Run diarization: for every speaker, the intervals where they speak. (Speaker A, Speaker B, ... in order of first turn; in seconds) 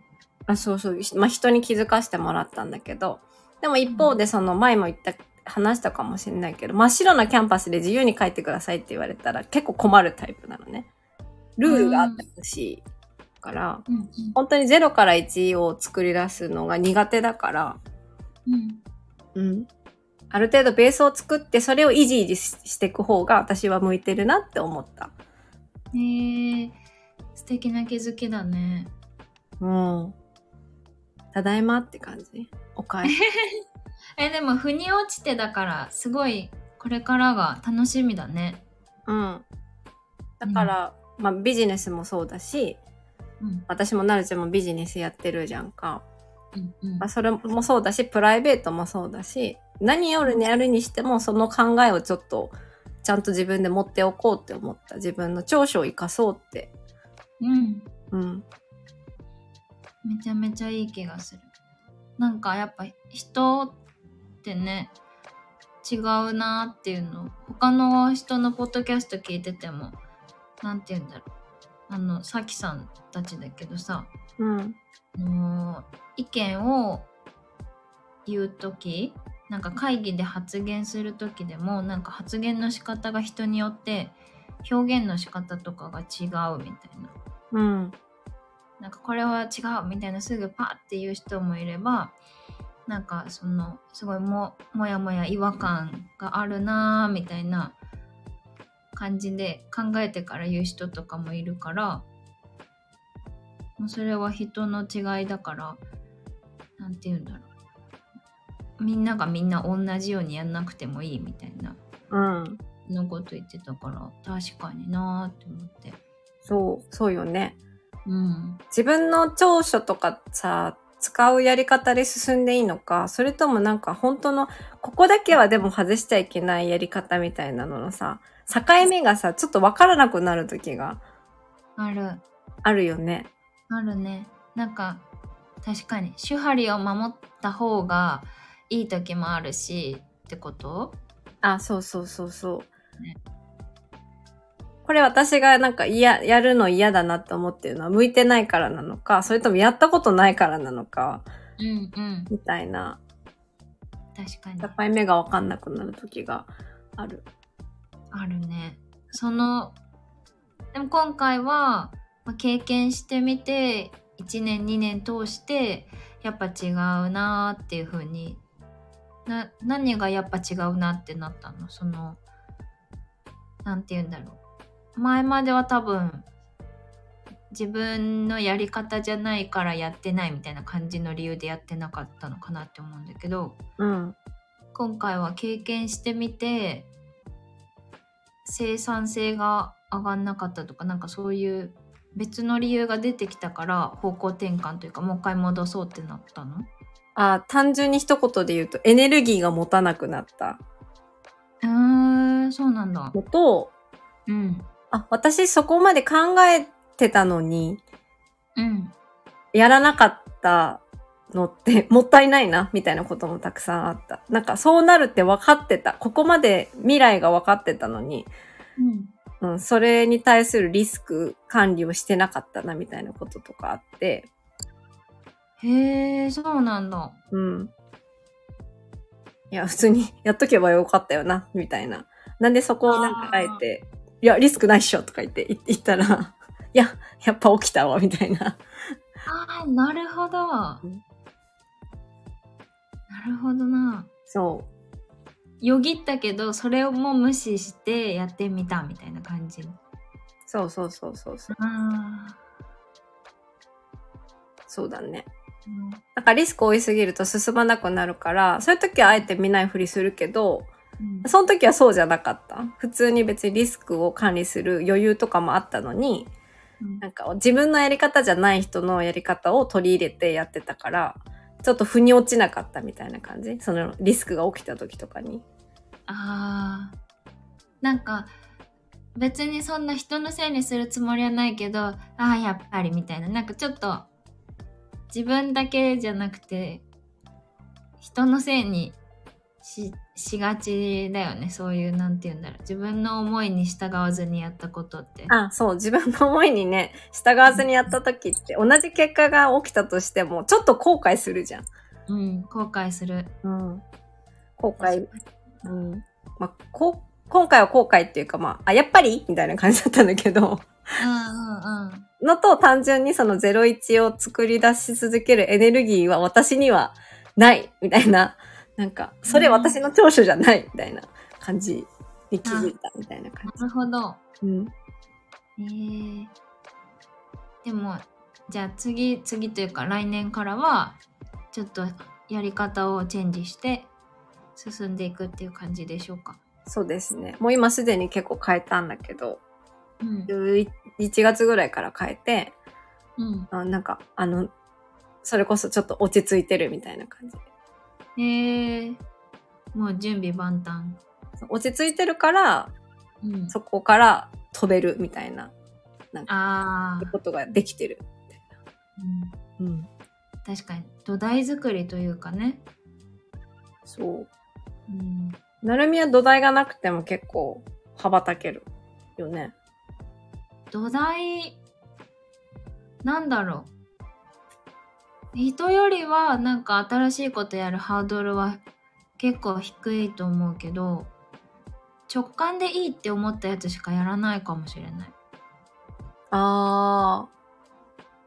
Speaker A: 0.5-10.9, 11.6-12.8, 13.4-13.8, 14.3-17.8, 19.3-19.7, 20.3-25.1, 29.6-30.1, 31.3-33.1, 39.1-39.4, 40.4-42.8, 43.7-46.0, 47.0-56.7, 58.1-58.5, 74.4-74.8, 87.5-87.9, 112.1-112.6, 116.5-117.6, 118.7-131.0, 132.6-133.3, 141.4-142.7, 144.8-151.2, 152.3-153.0, 154.6-157.2, 183.8-184.2, 197.2-200.6, 203.1-203.7, 204.9-207.8, 209.5-218.3, 219.4-224.3, 227.3-227.7, 229.5-238.6, 244.3-244.7, 250.5-251.5, 254.7-255.3, 256.1-260.7, 261.2-266.3, 267.0-275.4, 295.3-301.7, 303.4-303.8, 304.6-305.1, 305.6-310.7, 312.2-323.6, 324.4-324.7, 336.7-339.4, 340.3-342.5, 343.5-344.5, 345.2-347.4, 351.4-352.7, 353.5-355.5, 357.0-358.4, 359.6-359.9, 363.9-364.3, 365.6-369.5, 386.3-387.3
Speaker B: 3.9-4.2, 11.7-12.2, 13.9-14.3, 18.5-18.8, 25.9-26.8, 27.3-28.9, 33.1-33.6, 34.2-38.6, 40.5-40.7, 43.4-43.6, 46.5-47.1, 57.4-57.9, 60.0-61.5, 62.2-63.8, 64.4-64.9, 65.8-70.0, 70.6-71.3, 71.9-74.1, 75.2-77.1, 78.2-87.1, 88.8-92.2, 92.9-97.8, 98.9-102.0, 103.8-105.8, 106.8-107.5, 108.8-111.8, 112.8-116.0, 118.0-118.6, 131.8-132.2, 133.7-135.0, 135.6-141.0, 151.6-152.3, 154.1-154.8, 158.1-159.8, 160.7-168.4, 169.2-172.2, 173.6-174.4, 174.9-176.3, 177.5-183.6, 184.7-186.9, 188.4-196.7, 201.6-203.1, 204.3-204.7, 208.6-208.9, 218.8-219.1, 225.6-227.2, 232.9-233.6, 239.2-240.8, 243.1-244.1, 245.6-249.8, 251.5-252.4, 255.7-256.0, 261.0-261.3, 276.1-276.9, 277.8-278.3, 279.1-284.1, 285.1-286.8, 288.0-289.0, 289.6-295.3, 297.5-297.9, 302.1-303.3, 304.8-305.2, 311.0-312.1, 319.3-319.8, 322.4-322.7, 323.5-324.2, 325.6-326.3, 327.6-331.0, 331.5-333.9, 334.6-336.4, 340.0-340.3, 343.2-343.5, 348.1-349.0, 349.7-351.0, 353.2-353.5, 356.3-357.1, 359.0-359.3, 360.4-362.6, 364.9-365.4, 370.7-371.6, 373.0-373.7, 375.3-378.6, 379.2-381.1, 382.1-385.1